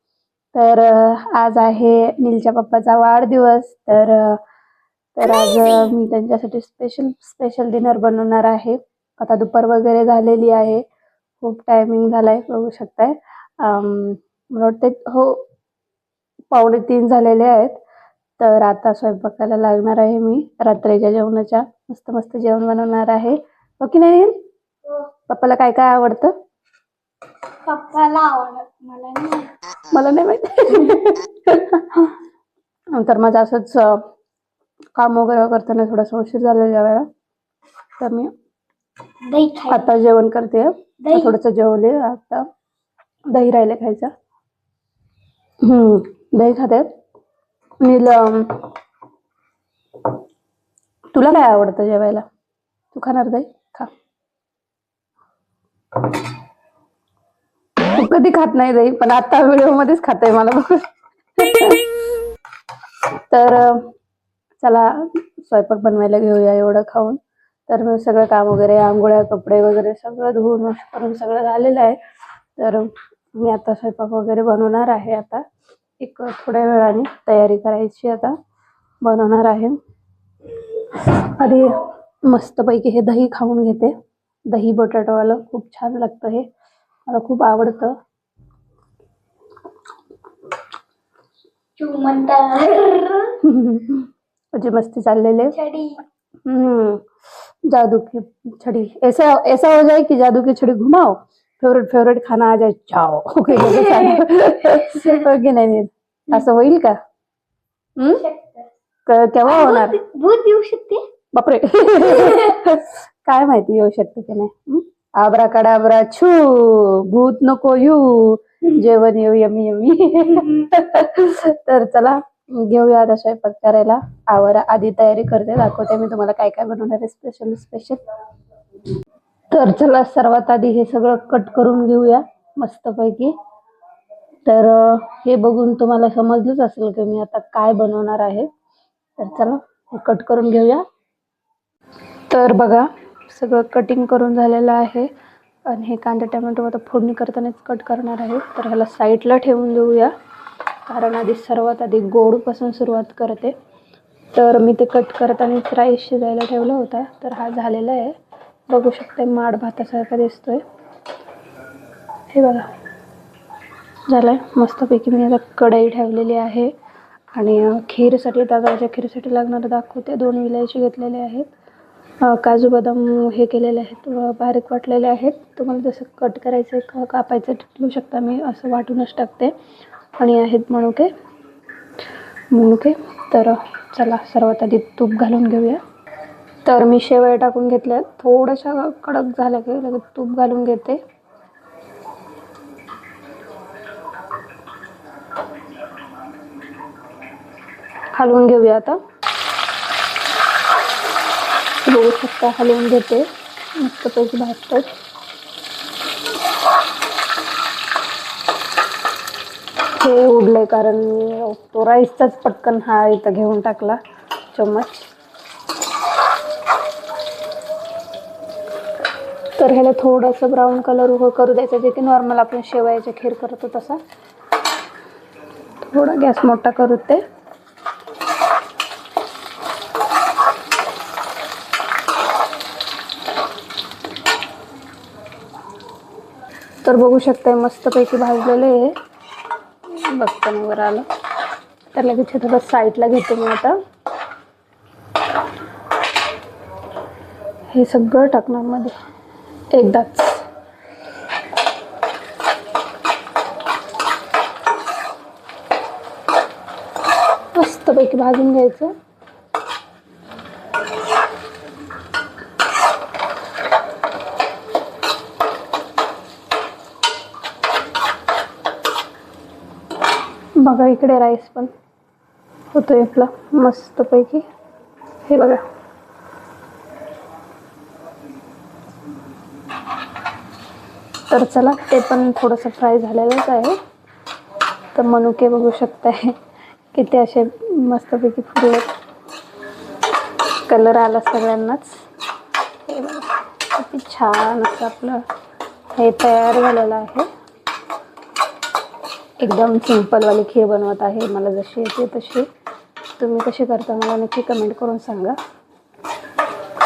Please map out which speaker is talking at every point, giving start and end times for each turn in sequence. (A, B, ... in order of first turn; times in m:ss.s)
0:00.5-0:04.4 A
0:05.2-0:10.8 A
0:05.5-0:05.9 B
0:11.4-0:15.4 A
0:16.5-0:17.8 A
0:18.4-0:24.4 A
0:25.3-0:26.3 A
0:27.6-0:29.5 B
0:29.9-0:32.2 A
0:32.9-0:34.0 A
0:35.0-0:37.1 A
0:38.0-0:38.3 A
0:39.2-0:39.9 B
0:39.7-0:42.5 A
0:41.0-0:41.4 B
0:43.3-0:44.1 A
0:45.6-0:46.9 A
0:47.8-0:48.7 A
0:51.1-0:52.2 A
0:52.9-0:53.9 A
0:57.8-1:00.8 A
1:01.4-1:01.9 A
1:03.3-1:03.9 A
1:04.6-1:12.0 A
1:12.6-1:15.4 A
1:16.0-1:18.4 A
1:19.0-1:19.8 A
1:20.7-1:24.0 A
1:24.5-1:26.5 A
1:27.1-1:28.0 A
1:31.8-1:33.4 B
1:33.4-1:35.6 A
1:35.6-1:36.0 B
1:36.4-1:37.1 A
1:37.6-1:47.0 A
1:43.5-1:45.2 B
1:48.0-1:48.3 A
1:48.2-1:48.6 B
1:49.1-1:50.0 A
1:49.5-1:51.1 B
1:51.3-2:08.0 A
1:52.2-1:52.6 B
2:09.5-2:13.3 A
2:14.5-2:18.5 A
2:19.2-2:20.8 A
2:22.3-2:25.1 A
2:25.7-2:30.1 A
2:30.9-2:33.6 A
2:34.3-2:38.2 A
2:38.7-2:40.6 A
2:42.3-2:42.7 A
2:44.1-2:46.7 A
2:47.3-2:51.5 A
2:52.2-2:59.6 A
3:00.2-3:01.1 A
3:02.5-3:05.8 A
3:06.6-3:11.0 A
3:18.1-3:19.0 A
3:21.8-3:24.9 A
3:29.9-3:34.0 A
3:34.5-3:35.1 A
3:39.6-3:44.0 A
3:45.8-3:47.2 A
3:56.8-3:59.0 A
3:59.9-4:01.1 A
4:01.9-4:03.8 A
4:07.7-4:09.0 A
4:09.7-4:10.4 A
4:17.6-4:18.9 A
4:30.6-4:31.7 A
4:32.7-4:34.4 A
4:35.2-4:35.6 A
4:41.3-4:43.8 A
4:44.9-4:46.4 A
4:46.9-4:48.9 A
4:50.7-4:52.1 A
4:52.8-4:55.2 A
4:56.0-4:57.3 A
4:59.4-5:02.5 A
5:03.2-5:05.4 A